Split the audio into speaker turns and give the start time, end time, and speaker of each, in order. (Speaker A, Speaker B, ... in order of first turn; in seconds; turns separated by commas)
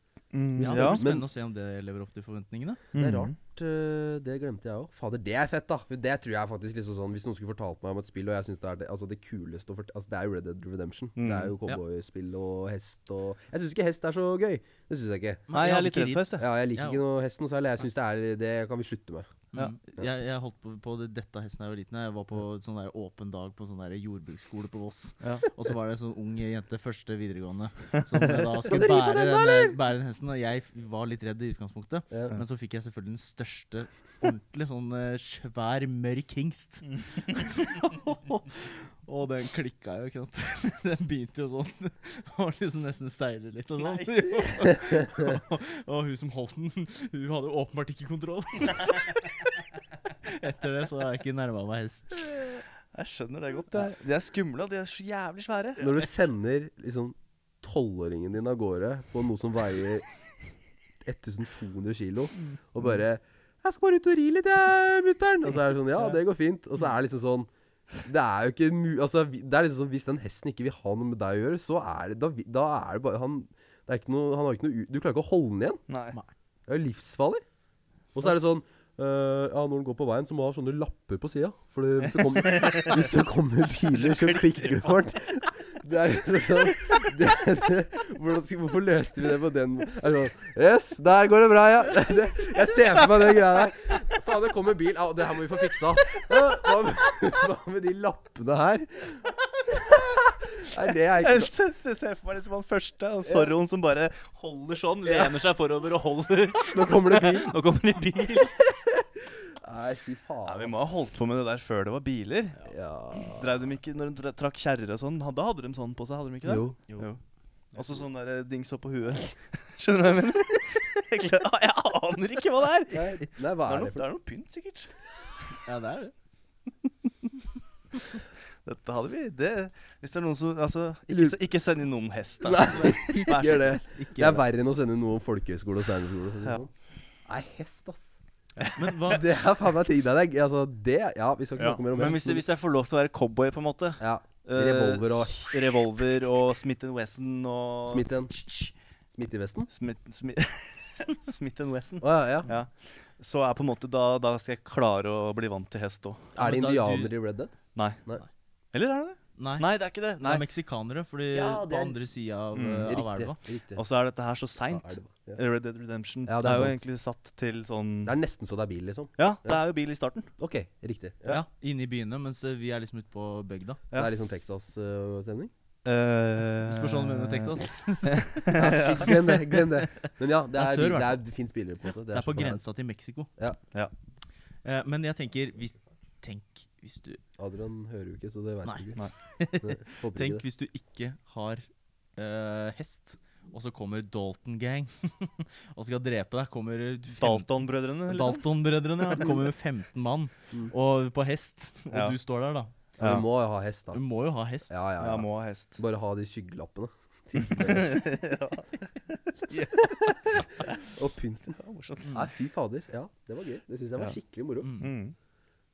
Speaker A: 0.3-1.0, Speaker B: 0.6-1.3, Speaker C: 0.6-2.8, Speaker A: 2.9-3.4, Speaker B: 2.9-15.4, Speaker A: 11.2-11.6, Speaker C: 15.5-17.0, Speaker A: 15.5-16.5, Speaker B: 16.4-19.3, Speaker C: 19.5-52.5, Speaker A: 25.2-25.5, Speaker A: 28.2-28.4, Speaker B: 28.7-29.7, Speaker B: 32.1-32.4, Speaker A: 43.8-44.5, Speaker A: 52.3-56.1, Speaker B: 55.8-60.1, Speaker B: 61.0-67.5, Speaker B: 68.0-75.8, Speaker A: 75.9-76.2, Speaker B: 76.7-77.4, Speaker B: 78.1-99.2, Speaker A: 82.2-83.1, Speaker A: 83.9-85.0, Speaker B: 99.8-101.5, Speaker A: 101.2-109.0, Speaker B: 103.2-103.5, Speaker B: 106.7-107.5, Speaker B: 109.6-110.7, Speaker A: 110.4-112.6, Speaker B: 112.7-113.6, Speaker A: 113.2-117.1, Speaker B: 116.5-116.8, Speaker C: 116.9-117.2, Speaker A: 117.7-124.9, Speaker B: 122.9-124.0, Speaker C: 125.6-126.1, Speaker A: 128.6-133.7, Speaker B: 131.1-131.4, Speaker B: 132.4-136.7, Speaker C: 132.9-134.4, Speaker B: 137.3-138.1, Speaker A: 138.6-139.2, Speaker C: 138.8-139.3, Speaker B: 139.1-142.4, Speaker A: 141.6-148.7, Speaker B: 144.0-145.6, Speaker B: 147.9-148.3, Speaker B: 149.1-149.7, Speaker A: 149.7-156.3, Speaker B: 152.0-152.5, Speaker C: 156.4-157.1, Speaker B: 156.4-157.5, Speaker A: 157.8-158.0, Speaker A: 158.7-160.4, Speaker C: 159.4-163.4, Speaker B: 161.3-162.0, Speaker A: 162.5-163.0, Speaker B: 162.8-163.8, Speaker A: 163.8-168.2, Speaker B: 164.7-165.4, Speaker B: 166.3-166.8, Speaker B: 168.1-169.6, Speaker A: 169.2-170.3, Speaker B: 170.4-171.4, Speaker C: 171.3-173.8, Speaker B: 173.9-175.5, Speaker A: 175.8-179.6, Speaker C: 176.6-178.6, Speaker B: 178.5-182.6, Speaker C: 180.5-181.2, Speaker C: 182.0-183.3, Speaker C: 184.6-187.2, Speaker B: 187.4-189.0, Speaker C: 188.7-191.7, Speaker B: 189.6-190.4, Speaker C: 192.2-202.8, Speaker A: 197.1-198.4, Speaker A: 201.9-202.2, Speaker A: 203.0-203.2, Speaker B: 203.0-204.0, Speaker C: 203.9-204.9, Speaker B: 204.7-208.0, Speaker A: 205.0-205.8, Speaker A: 207.3-210.8, Speaker B: 210.5-214.8, Speaker A: 211.5-212.2, Speaker C: 214.6-214.9, Speaker A: 214.8-215.2